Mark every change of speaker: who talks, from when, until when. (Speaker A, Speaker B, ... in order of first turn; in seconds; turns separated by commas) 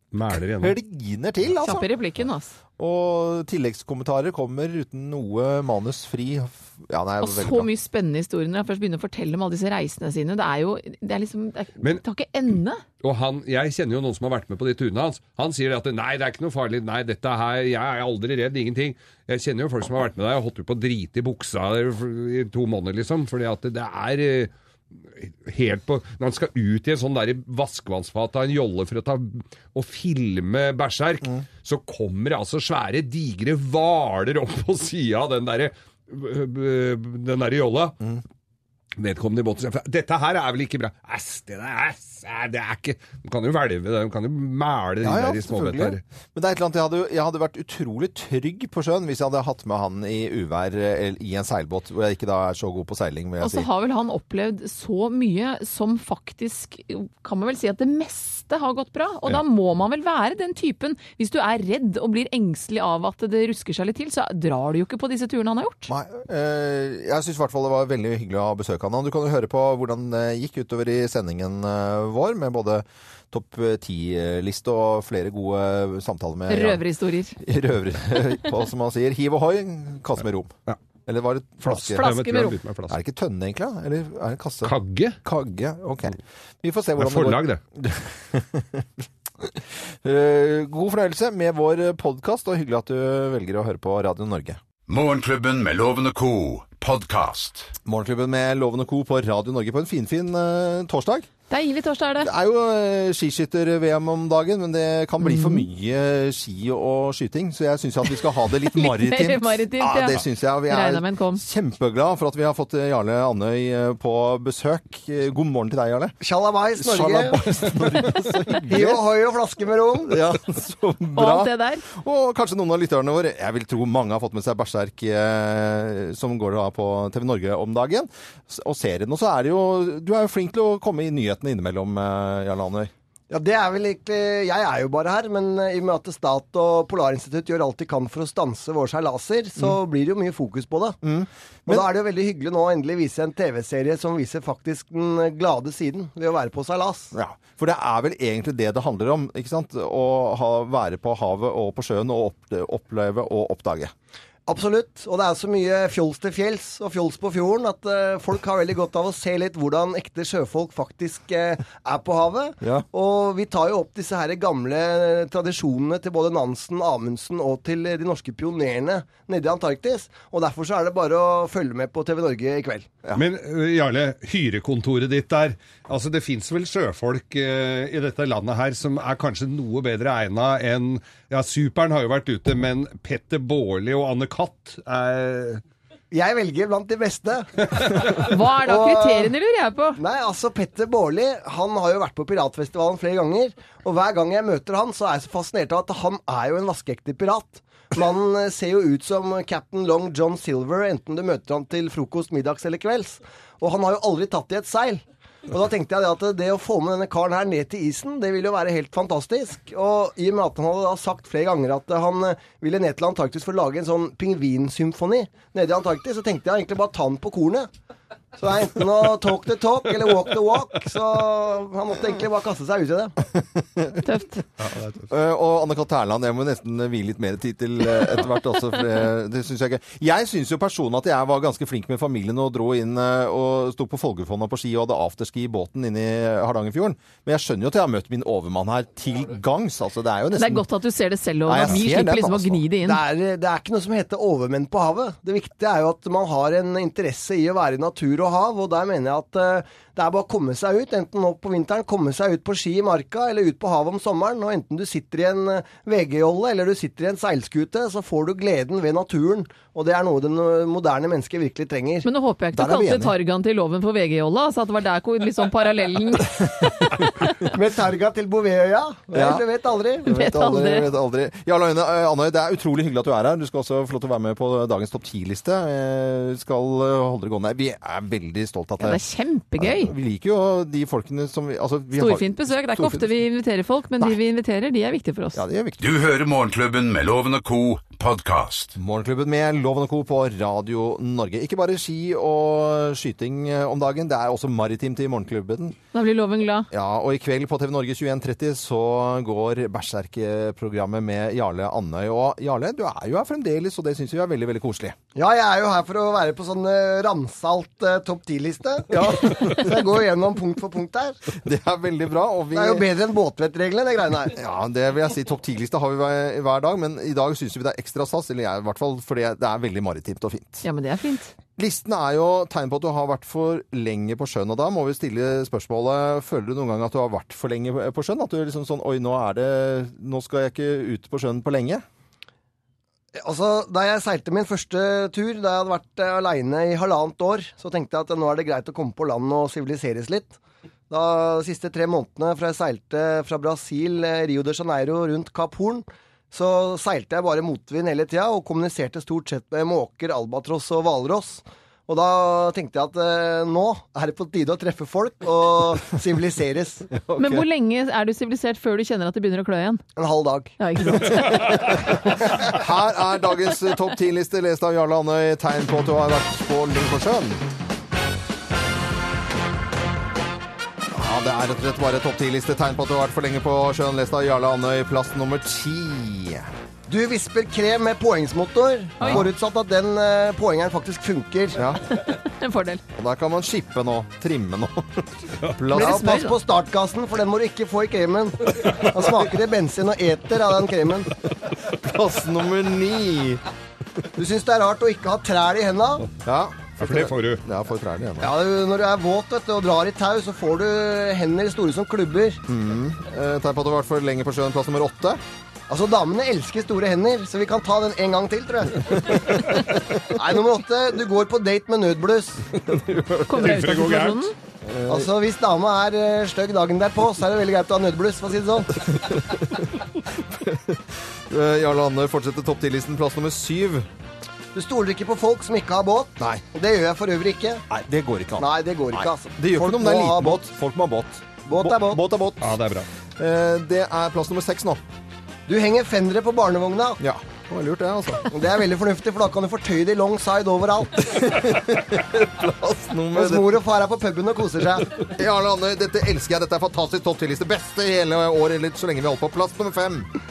Speaker A: 0.1-0.8, Speaker B: 0.6-1.9, Speaker C: 1.6-2.5, Speaker B: 2.8-7.7, Speaker C: 7.2-12.8, Speaker A: 13.0-24.5, Speaker A: 25.2-38.0, Speaker A: 39.0-46.0, Speaker B: 45.0-53.7, Speaker C: 53.4-65.9, Speaker B: 65.9-76.8, Speaker C: 76.5-77.4, Speaker B: 77.4-82.1, Speaker C: 81.7-82.6, Speaker A: 81.9-83.0, Speaker B: 82.9-94.6, Speaker A: 84.6-85.2, Speaker A: 87.0-87.6, Speaker D: 94.9-97.7, Speaker B: 97.9-101.3, Speaker C: 101.5-102.3, Speaker B: 102.2-116.2, Speaker C: 105.2-105.7, Speaker C: 108.7-111.4, Speaker E: 116.2-117.5, Speaker B: 116.8-119.0, Speaker E: 118.5-120.2, Speaker B: 120.1-132.9, Speaker C: 121.2-121.9, Speaker E: 133.3-141.0, Speaker B: 141.0-141.9, Speaker E: 141.7-147.1, Speaker B: 147.1-153.9, Speaker E: 154.5-172.9, Speaker B: 162.6-162.9, Speaker A: 173.1-185.6, Speaker E: 186.1-189.3, Speaker C: 188.2-190.0, Speaker E: 190.0-217.7, Speaker E: 218.4-223.2, Speaker B: 223.4-224.0, Speaker C: 224.0-224.4, Speaker A: 224.6-225.0, Speaker B: 225.1-240.7, Speaker C: 240.4-243.0, Speaker B: 241.5-242.6, Speaker E: 242.8-262.1, Speaker C: 262.0-266.5, Speaker B: 262.5-263.1, Speaker B: 266.5-266.9, Speaker E: 267.4-270.1, Speaker B: 269.1-269.4, Speaker B: 270.0-279.0, Speaker C: 270.1-270.9, Speaker C: 278.8-279.9, Speaker B: 279.6-283.1, Speaker C: 281.9-285.4, Speaker B: 285.4-285.9, Speaker D: 285.8-288.7, Speaker B: 288.8-295.8, Speaker C: 295.9-296.7, Speaker B: 296.7-305.0, Speaker E: 305.1-311.2, Speaker B: 308.9-309.8, Speaker B: 311.4-312.9, Speaker E: 312.5-314.3, Speaker B: 314.3-320.6, Speaker C: 320.6-321.3, Speaker B: 321.6-331.8, Speaker E: 333.2-340.4, Speaker E: 340.9-356.9, Speaker B: 356.9-357.5, Speaker C: 357.2-359.8, Speaker E: 360.0-360.6, Speaker C: 360.6-361.6, Speaker B: 361.1-367.4, Speaker B: 370.9-376.5, Speaker E: 376.9-381.6, Speaker B: 379.0-379.3, Speaker B: 381.6-381.8, Speaker C: 381.9-382.8, Speaker B: 382.9-386.2, Speaker E: 385.7-391.1, Speaker C: 385.7-386.4, Speaker B: 391.6-393.4, Speaker E: 394.2-396.1, Speaker B: 396.2-398.3, Speaker A: 396.8-397.4, Speaker E: 398.2-402.4, Speaker B: 402.5-405.2, Speaker E: 405.7-412.5, Speaker B: 409.1-409.6, Speaker A: 412.7-414.3, Speaker C: 413.3-414.3, Speaker B: 414.6-415.1, Speaker E: 414.9-418.9, Speaker B: 418.9-423.9, Speaker E: 424.5-427.6, Speaker B: 426.2-426.4, Speaker B: 427.7-432.6, Speaker E: 428.4-430.4, Speaker E: 431.5-432.0, Speaker A: 432.4-432.9, Speaker B: 433.2-434.8, Speaker E: 435.5-437.0, Speaker B: 437.0-438.3, Speaker E: 438.3-441.3, Speaker B: 441.1-443.6, Speaker E: 443.1-445.1, Speaker B: 445.1-450.1